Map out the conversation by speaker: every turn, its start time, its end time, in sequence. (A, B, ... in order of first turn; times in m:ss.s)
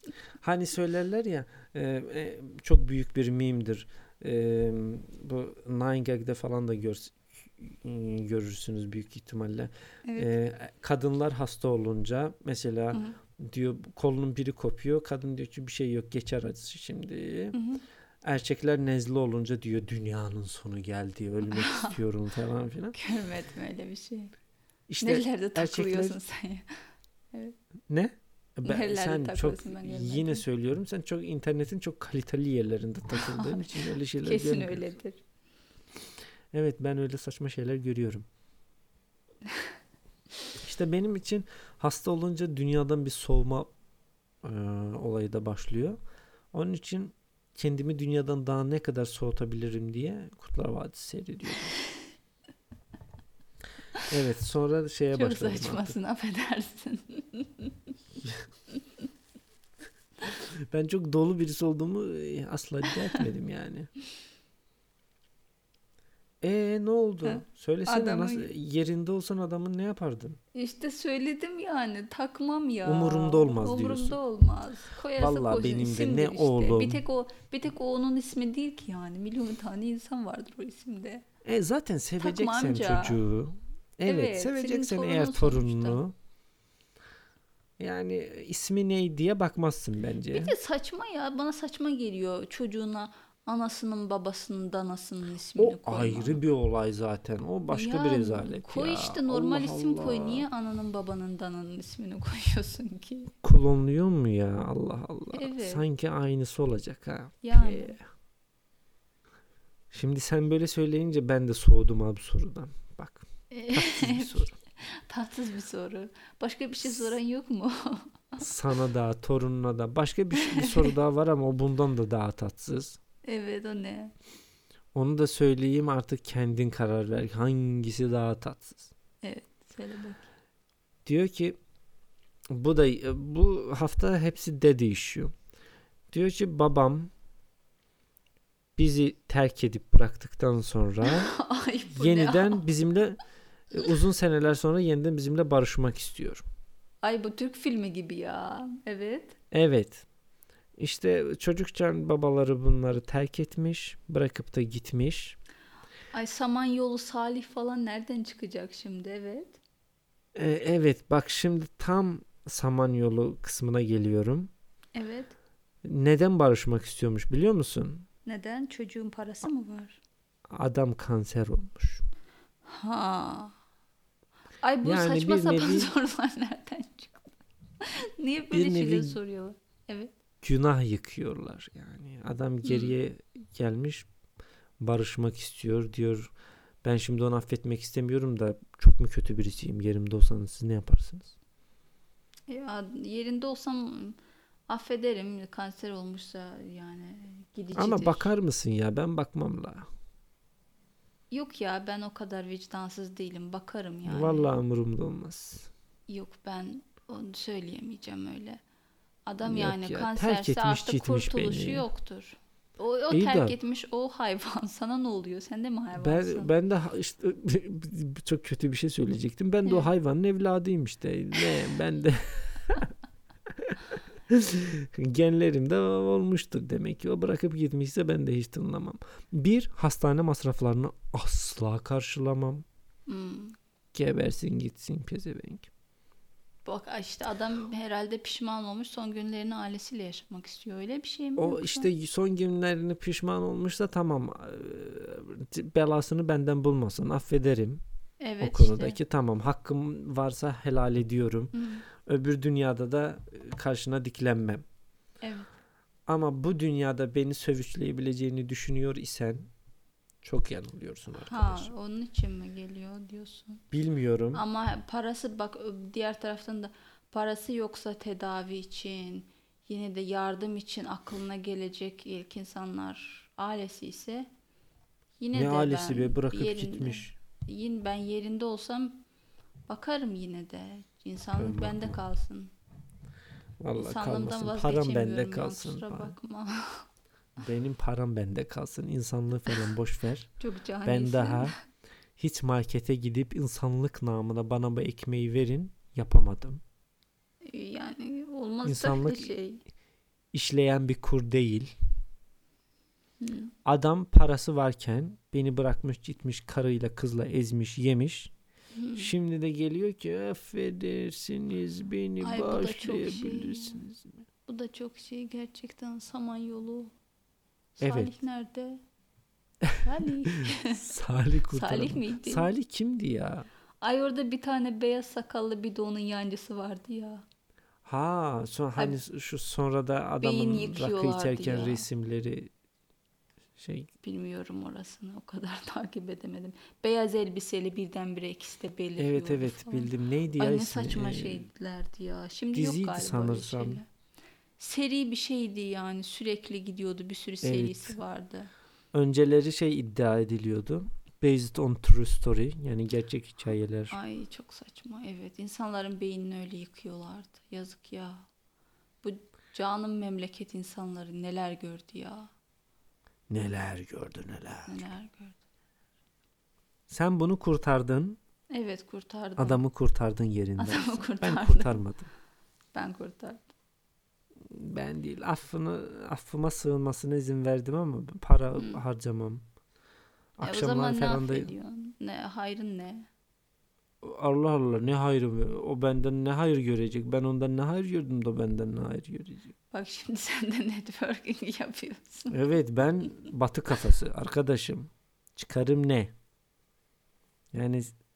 0:00.4-0:17.6 A
0:10.0-0:10.3 B
0:12.9-0:13.2 B
0:17.5-0:17.8 B
0:18.2-0:23.0 A
0:21.4-0:22.0 B
0:22.9-0:24.3 B
0:24.9-0:26.2 A
0:25.0-0:26.7 B
0:27.9-0:34.9 A
0:28.6-0:30.4 B
0:33.1-0:35.2 B
0:36.5-0:38.3 A
0:40.6-0:43.7 A
0:44.4-0:46.0 A
0:46.5-0:51.7 A
0:54.1-0:55.9 A
0:55.1-0:57.7 B
1:00.3-1:03.9 A
1:06.4-1:10.4 A
1:07.2-1:08.5 B
1:10.5-1:21.2 B
1:12.8-1:14.2 A
1:15.2-1:17.0 A
1:21.4-1:26.1 A
1:22.2-1:23.2 B
1:24.0-1:26.0 B
1:27.8-1:30.5 A
1:30.3-1:36.4 B
1:35.6-1:40.5 A
1:37.7-1:43.3 B
1:43.4-1:48.0 A
1:45.3-1:45.8 B
1:47.4-1:48.0 B
1:49.9-1:54.5 A
1:53.5-1:58.4 B
1:58.4-2:03.0 A
2:00.4-2:00.9 B
2:03.2-2:04.1 B
2:04.9-2:08.9 A
2:09.2-2:10.2 B
2:11.0-2:11.6 A
2:12.5-2:15.3 A
2:16.1-2:17.1 A
2:18.8-2:21.3 A
2:21.0-2:22.6 B
2:21.9-2:23.2 A
2:23.7-2:26.4 A
2:27.0-2:29.4 B
2:29.5-2:30.0 A
2:30.8-2:35.4 A
2:36.1-2:39.6 B
2:40.3-2:44.5 A
2:44.9-2:45.3 B
2:45.8-2:48.0 A
2:48.2-2:50.0 B
2:50.5-2:52.0 A
2:52.7-2:53.5 B
2:54.6-3:00.1 B
2:54.8-2:55.9 A
2:58.5-2:59.2 A
3:00.4-3:04.1 A
3:02.6-3:02.9 B
3:04.8-3:06.3 A
3:06.8-3:11.3 A
3:12.5-3:18.3 B
3:17.8-3:19.9 A
3:21.3-3:24.5 B
3:24.0-3:25.7 A
3:26.1-3:28.6 B
3:29.3-3:36.5 B
3:29.4-3:31.8 A
3:33.1-3:33.5 A
3:36.0-3:42.9 A
3:43.5-3:52.6 A
3:53.1-3:53.6 B
3:53.9-3:55.7 A
3:56.6-4:01.9 B
4:01.4-4:07.8 A
4:08.2-4:09.0 B
4:08.4-4:14.6 A
4:11.5-4:11.8 B
4:15.2-4:15.5 B
4:16.1-4:19.5 A
4:20.2-4:21.7 A
4:21.2-4:23.6 B
4:23.7-4:24.4 A
4:24.3-4:34.3 B
4:35.2-4:39.0 B
4:35.3-4:37.2 A
4:39.7-4:42.5 B
4:41.4-4:41.9 A
4:43.6-4:46.1 A
4:43.8-4:46.9 B
4:47.4-4:50.3 A
4:50.4-4:51.5 B
4:50.8-4:51.5 A
4:52.2-4:56.6 A
4:57.4-4:59.6 B
4:58.6-4:59.3 A
5:00.3-5:01.7 A
5:03.2-5:03.5 B
5:03.6-5:08.3 A
5:08.7-5:09.1 B
5:09.0-5:14.1 A
5:12.2-5:13.8 B
5:14.5-5:16.9 B
5:17.8-5:18.8 B
5:17.8-5:18.1 A
5:19.8-5:20.9 B
5:20.4-5:23.5 A
5:21.5-5:22.5 B
5:23.8-5:27.2 B
5:27.8-5:32.5 A
5:30.2-5:31.8 B
5:33.6-5:33.9 A
5:34.0-5:43.8 B
5:39.0-5:41.4 A
5:42.5-5:43.8 A
5:44.6-5:48.5 B
5:47.4-5:47.9 A
5:48.9-5:54.0 A
5:53.9-5:58.3 B
5:59.0-6:02.3 B
6:03.3-6:04.8 A
6:04.7-6:05.4 B
6:06.9-6:08.2 A
6:08.5-6:09.6 B
6:09.4-6:12.1 A
6:10.6-6:11.8 B
6:12.7-6:13.4 B
6:14.4-6:19.4 A
6:20.4-6:21.5 A
6:20.4-6:23.1 B
6:24.0-6:29.5 A
6:29.7-6:32.4 B
6:32.3-6:36.1 A
6:37.5-6:37.9 A